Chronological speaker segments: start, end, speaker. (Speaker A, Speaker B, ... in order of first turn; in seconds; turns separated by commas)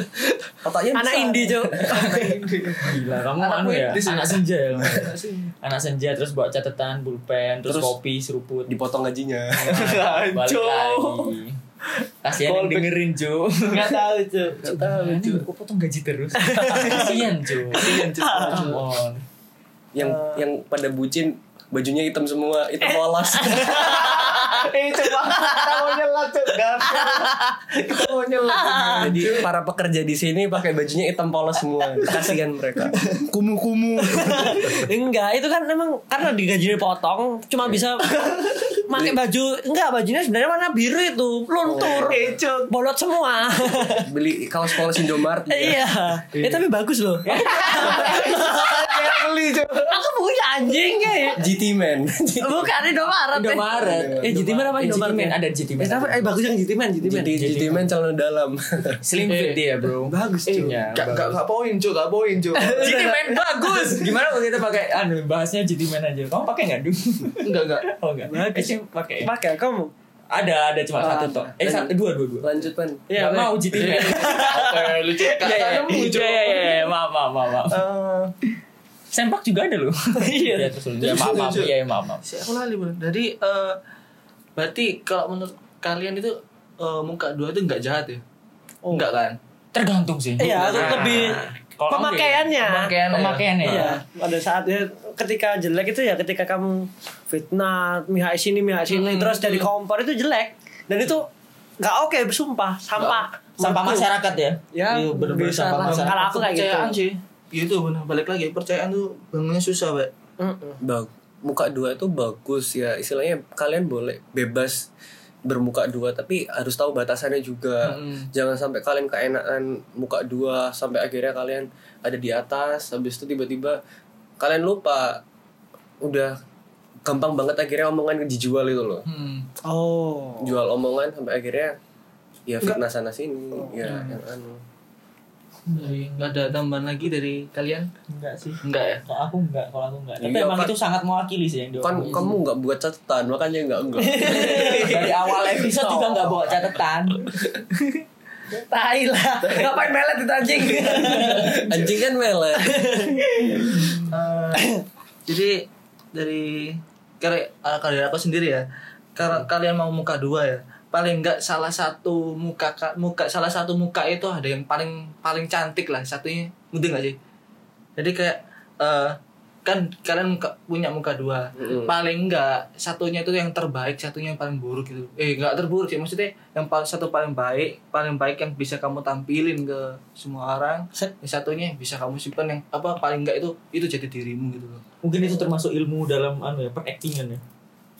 Speaker A: 0.6-2.1, Speaker B: 0.9-2.4, Speaker C: 1.9-5.5, Speaker D: 2.8-8.7, Speaker A: 7.7-7.9, Speaker A: 8.7-9.9, Speaker C: 9.6-11.4, Speaker D: 9.7-11.6, Speaker D: 12.2-14.0, Speaker C: 12.4-12.9, Speaker C: 13.7-15.4, Speaker D: 14.6-19.2, Speaker B: 16.4-17.2, Speaker C: 16.6-18.8, Speaker B: 17.9-18.7, Speaker A: 19.9-24.0, Speaker C: 20.0-20.3, Speaker B: 23.1-24.7, Speaker C: 23.4-29.5, Speaker B: 25.3-26.0, Speaker B: 26.9-27.5, Speaker B: 28.5-29.2, Speaker A: 28.9-32.9, Speaker C: 33.0-34.9, Speaker B: 34.2-38.0, Speaker C: 38.2-38.8, Speaker B: 38.9-44.1, Speaker A: 41.6-42.1, Speaker C: 41.8-42.7, Speaker A: 44.0-45.9, Speaker B: 45.5-49.2, Speaker C: 46.3-46.6, Speaker D: 47.3-48.4, Speaker C: 47.3-50.0, Speaker B: 49.9-51.4, Speaker A: 51.4-52.7, Speaker B: 52.4-57.3, Speaker D: 53.3-56.3, Speaker A: 53.8-54.3, Speaker D: 57.0-57.9, Speaker A: 57.0-59.0, Speaker D: 59.0-61.4, Speaker C: 59.2-59.6, Speaker C: 60.4-63.1, Speaker B: 62.5-64.1, Speaker D: 62.8-69.3, Speaker C: 67.4-67.9, Speaker B: 68.2-69.9, Speaker D: 70.3-72.5, Speaker B: 71.0-71.5, Speaker A: 71.6-73.0, Speaker B: 73.1-74.7, Speaker D: 73.1-77.8, Speaker C: 73.7-76.9, Speaker C: 77.7-78.3, Speaker D: 79.1-82.2, Speaker B: 80.2-80.7, Speaker C: 81.0-81.7, Speaker C: 82.2-83.8, Speaker C: 84.5-88.2, Speaker C: 88.9-89.4, Speaker D: 89.7-92.5, Speaker B: 90.4-101.3, Speaker C: 90.5-91.3, Speaker C: 92.6-94.0, Speaker D: 93.1-94.0, Speaker C: 98.9-99.7, Speaker B: 101.8-104.1, Speaker D: 103.6-106.3, Speaker B: 104.7-107.0, Speaker C: 105.7-110.1, Speaker B: 110.4-110.8, Speaker A: 110.8-114.9, Speaker A: 115.5-123.8, Speaker C: 117.8-118.3, Speaker A: 124.4-125.2, Speaker A: 126.0-126.3, Speaker A: 127.0-129.1, Speaker C: 129.1-129.5, Speaker B: 129.6-130.6, Speaker A: 130.4-131.8, Speaker A: 132.5-134.6, Speaker C: 133.8-134.2, Speaker D: 135.7-136.5, Speaker C: 135.7-137.9, Speaker D: 138.1-142.3, Speaker C: 138.6-139.0, Speaker A: 140.2-140.7, Speaker A: 141.8-144.8, Speaker B: 144.0-146.3, Speaker D: 144.8-147.2, Speaker B: 148.5-151.7, Speaker C: 149.4-149.9, Speaker C: 150.6-151.6, Speaker A: 151.5-152.7, Speaker B: 152.6-154.0, Speaker C: 153.7-154.7, Speaker C: 155.3-167.2, Speaker C: 168.0-184.8, Speaker A: 171.6-171.9, Speaker D: 185.0-187.4